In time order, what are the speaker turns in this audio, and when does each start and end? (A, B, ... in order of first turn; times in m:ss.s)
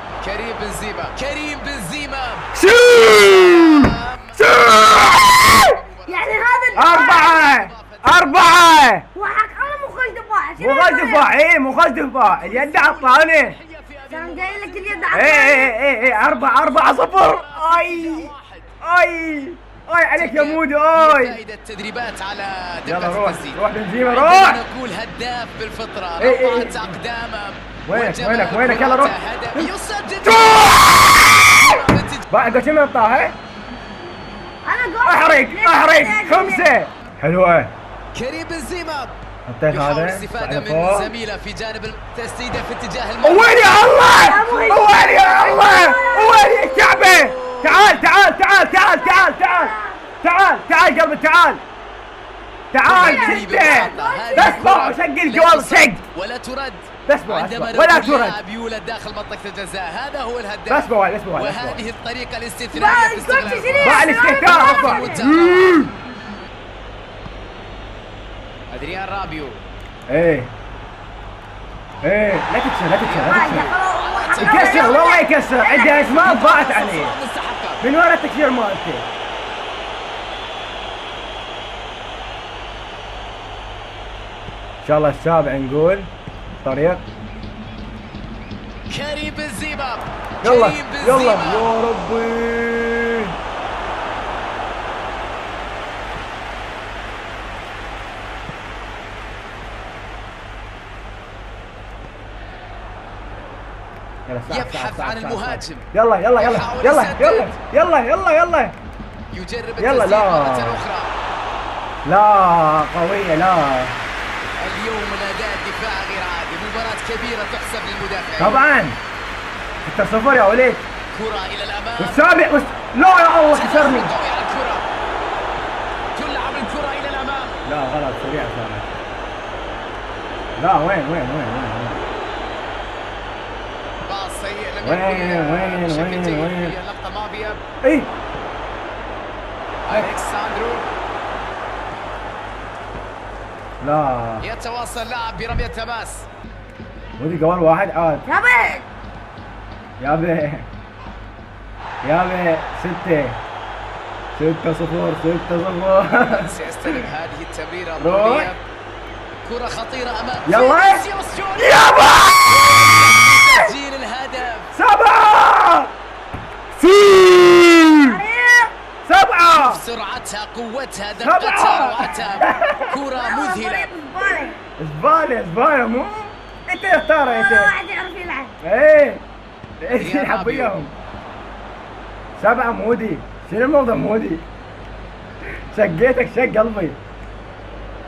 0:00.2-0:08.7 A
0:02.6-0:05.8 B
0:06.1-0:07.4 C
0:06.8-0:09.1 B
0:09.2-0:11.3 C
0:10.6-0:13.6 B
0:12.2-0:18.7 A
0:14.1-0:15.8 C
0:15.1-0:21.4 B
0:20.2-0:32.3 A
0:22.9-0:24.6 B
0:26.2-0:27.0 B
0:27.9-0:29.7 B
0:30.2-0:31.8 B
0:32.3-0:33.4 B
0:34.6-0:36.7 C
0:35.1-0:37.7 B
0:38.1-0:39.2 A
0:39.5-0:41.1 B
0:39.7-0:48.1 A
0:43.2-0:51.6 B
0:44.0-0:46.6 C
0:48.7-0:50.1 C
0:52.7-0:56.0 B
0:52.8-1:06.0 A
0:52.9-0:54.7 C
0:57.1-0:58.4 B
1:00.7-1:01.8 B
1:02.7-1:05.3 C
1:03.8-1:05.9 B
1:08.7-1:09.6 A
1:10.1-1:10.5 B
1:12.0-1:13.8 B
1:13.0-1:15.2 A
1:13.3-1:16.0 C
1:14.4-1:17.2 B
1:15.8-1:17.8 A
1:17.8-1:19.1 B
1:24.8-1:26.1 B
1:26.6-1:27.0 B
1:28.9-1:31.7 A
1:30.4-1:33.3 B
1:44.3-1:48.8 B
1:44.5-1:47.6 A
1:49.3-1:51.1 A
1:49.8-1:50.8 B
1:52.0-1:54.0 B
1:54.6-1:58.6 A
1:58.4-1:59.0 B
1:59.8-2:00.9 B
2:01.1-2:02.2 A
2:02.0-2:04.1 B
2:03.5-2:04.9 A
2:06.2-2:07.6 A
2:07.7-2:08.9 B
2:10.6-2:12.0 B
2:14.1-2:17.6 A
2:14.8-2:16.8 B
2:17.8-2:18.1 B
2:19.9-2:20.9 A
2:23.8-2:24.5 B
2:24.4-2:26.3 A
2:27.2-2:28.3 B
2:28.3-2:28.8 C
2:30.0-2:30.7 B
2:32.0-2:33.4 B
2:34.4-2:37.1 B
2:36.3-2:38.6 A
2:38.0-2:38.5 B
2:39.4-2:44.7 A
2:40.4-2:43.7 B
2:44.7-2:45.9 B
2:46.7-2:48.2 B
2:48.0-2:48.7 C
2:49.0-2:49.8 B
2:49.5-2:53.9 A
2:51.2-2:53.0 B
2:53.2-2:54.6 C
2:54.8-2:57.7 B
2:57.2-2:58.6 C
2:58.6-2:59.2 B
2:59.8-3:00.9 B
3:00.0-3:00.8 A
3:02.4-3:04.4 B
3:05.7-3:07.0 B